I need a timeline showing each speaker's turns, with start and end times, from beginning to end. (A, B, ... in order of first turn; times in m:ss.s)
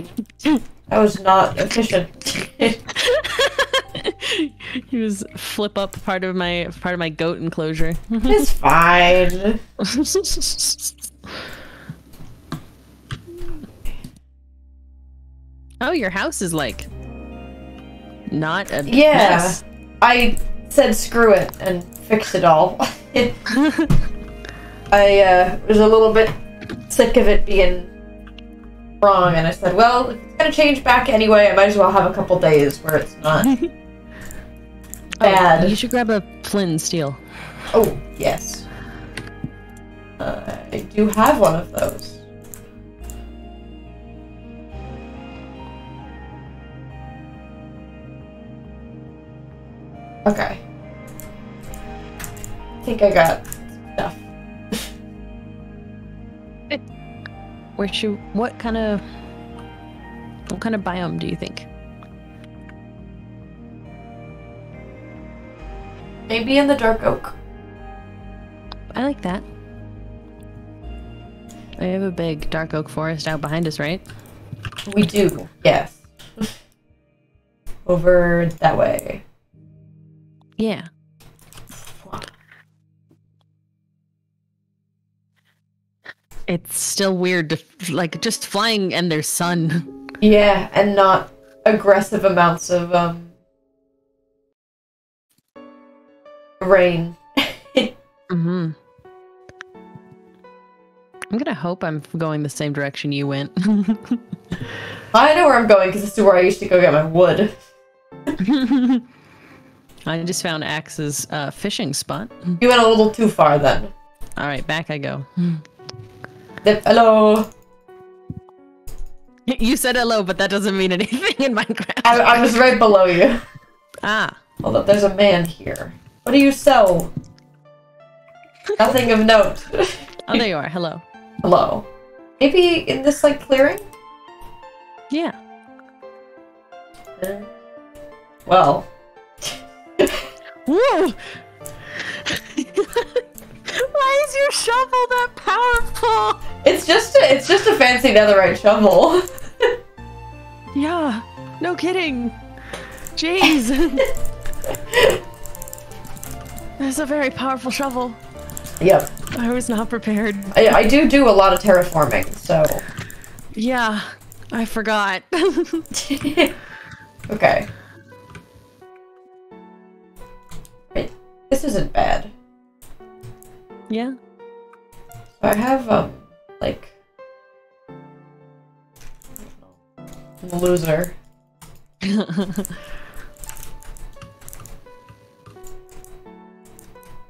0:00.9-0:02.8 A
0:02.9-0:08.5 B
0:08.3-0:09.6 A
0:09.8-0:10.9 B
0:15.8-0:16.9 B
0:18.3-0:19.6 B
0:18.9-0:23.4 A
0:23.6-0:23.9 B
0:24.9-0:26.4 A
0:26.9-0:27.9 A
0:29.0-0:33.5 A
0:35.2-0:37.2 B
0:35.2-0:35.8 A
0:37.7-0:38.7 A
0:40.2-0:42.2 A
0:50.3-0:50.6 A
0:52.8-0:54.9 A
0:57.8-0:59.0 B
1:00.5-1:01.7 B
1:06.3-1:07.4 A
1:08.9-1:09.4 B
1:11.8-1:14.0 B
1:14.9-1:16.5 A
1:17.9-1:19.2 A
1:20.6-1:20.9 B
1:22.0-1:22.3 A
1:26.5-1:29.9 B
1:30.2-1:33.3 A
1:36.6-1:37.9 A
1:38.3-1:38.8 B
1:41.3-1:44.2 B
1:45.1-1:47.5 A
1:48.4-1:49.1 B
1:50.1-1:52.6 B
1:52.6-1:53.9 A
1:54.4-1:55.6 B
1:56.6-1:57.5 A
1:59.5-2:02.6 B
2:02.0-2:03.4 A
2:04.0-2:04.4 B
2:04.6-2:07.1 A
2:08.8-2:10.1 A
2:10.3-2:11.0 B
2:11.4-2:11.9 A
2:12.4-2:13.8 A
2:15.1-2:15.4 B
2:17.2-2:17.5 A
2:18.5-2:18.9 A
2:19.4-2:20.3 A
2:20.7-2:21.4 B
2:21.9-2:26.4 B
2:26.6-2:29.7 A
2:30.7-2:32.4 B
2:33.2-2:34.1 B
2:36.8-2:38.2 B
2:38.8-2:39.1 A
2:39.3-2:40.8 B
2:40.5-2:42.8 A
2:43.6-2:45.9 B
2:45.9-2:46.5 A
2:47.3-2:47.7 A
2:50.9-2:52.3 A
2:53.9-2:54.2 B
2:55.4-2:56.9 A
2:59.5-2:59.7 A
3:00.4-3:01.2 A
3:02.0-3:02.7 B